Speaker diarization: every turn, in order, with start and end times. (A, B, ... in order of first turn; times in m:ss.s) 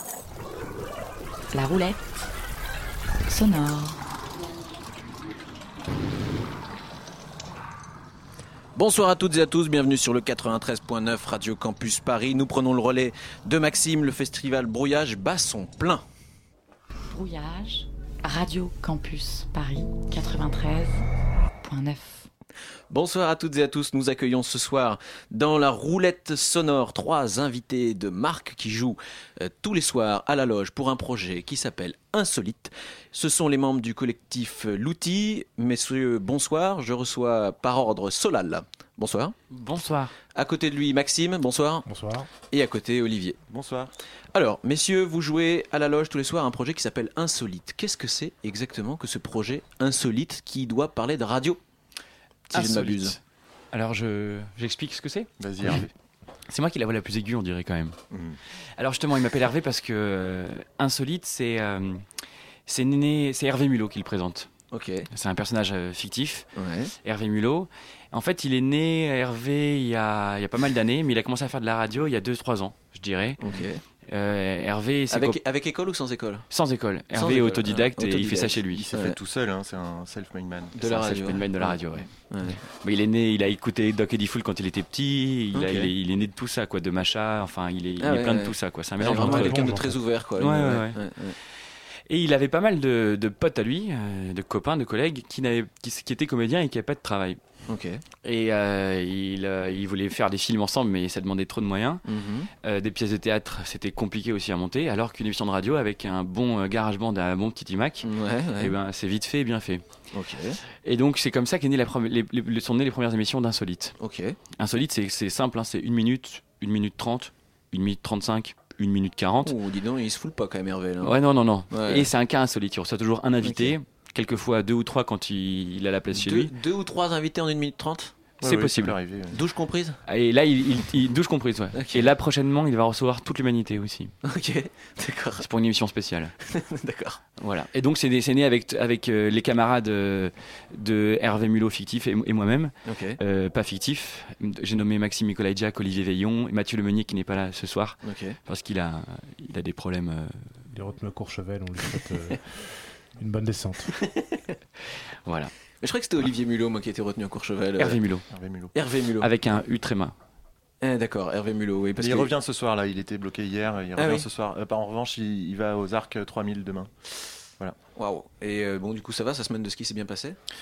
0:01.5-0:02.3 A
0:03.3-0:04.0 A
0:08.8-0:16.0 B
0:17.1-0:21.0 A
0:21.6-0:22.3 A
0:22.9-0:39.3 B
0:39.5-0:40.1 C
0:40.3-0:41.8 B
0:41.8-0:42.3 D
0:42.4-0:43.4 B
0:43.5-0:43.9 E
0:44.3-0:51.6 B
0:52.5-0:53.2 B
0:52.5-0:53.2 C
0:53.7-0:55.8 C
0:55.4-0:55.9 E
0:56.5-0:58.0 C
0:58.1-0:58.4 E
0:58.8-1:02.0 C
1:02.6-1:04.5 C
1:04.7-1:05.0 B
1:05.1-1:06.5 C
1:06.6-1:06.9 B
1:07.0-1:13.4 C
1:13.4-1:13.8 B
1:14.0-1:15.4 C
1:15.1-1:16.4 B
1:16.5-1:18.9 C
1:17.1-1:19.2 B
1:18.7-1:20.8 E
1:20.8-1:22.6 B
1:20.8-1:22.1 C
1:22.6-1:29.7 C
1:25.5-1:25.9 B
1:28.0-1:31.4 B
1:29.1-1:30.0 D
1:30.4-1:31.0 C
1:32.1-1:37.4 C
1:37.7-1:38.0 B
1:38.2-1:42.0 C
1:42.0-1:42.5 B
1:42.6-1:49.8 C
1:48.0-1:48.7 B
1:50.1-1:50.6 B
1:50.8-1:53.9 C
1:54.0-1:54.4 B
1:54.6-1:59.5 C
1:59.4-2:01.2 B
2:01.0-2:06.5 C
2:01.7-2:02.1 B
2:03.4-2:03.7 B
2:06.1-2:08.1 B
2:08.4-2:09.4 E
2:08.4-2:09.0 C
2:09.3-2:10.0 B
2:10.0-2:14.1 C
2:11.7-2:12.1 B
2:14.2-2:15.4 B
2:15.4-2:16.3 C
2:16.4-2:17.2 B
2:17.4-2:30.6 C
2:22.8-2:23.2 B
2:28.0-2:28.4 B
2:30.7-2:32.6 D
2:33.2-2:33.9 D
2:33.9-2:34.5 B
2:35.2-2:35.5 C
2:35.8-2:38.0 B
2:37.8-2:38.2 C
2:38.3-2:38.7 E
2:38.7-2:39.3 B
2:39.2-2:40.1 C
2:40.8-2:42.3 B
2:42.0-2:46.9 E
2:44.0-2:44.3 B
2:48.0-2:50.4 B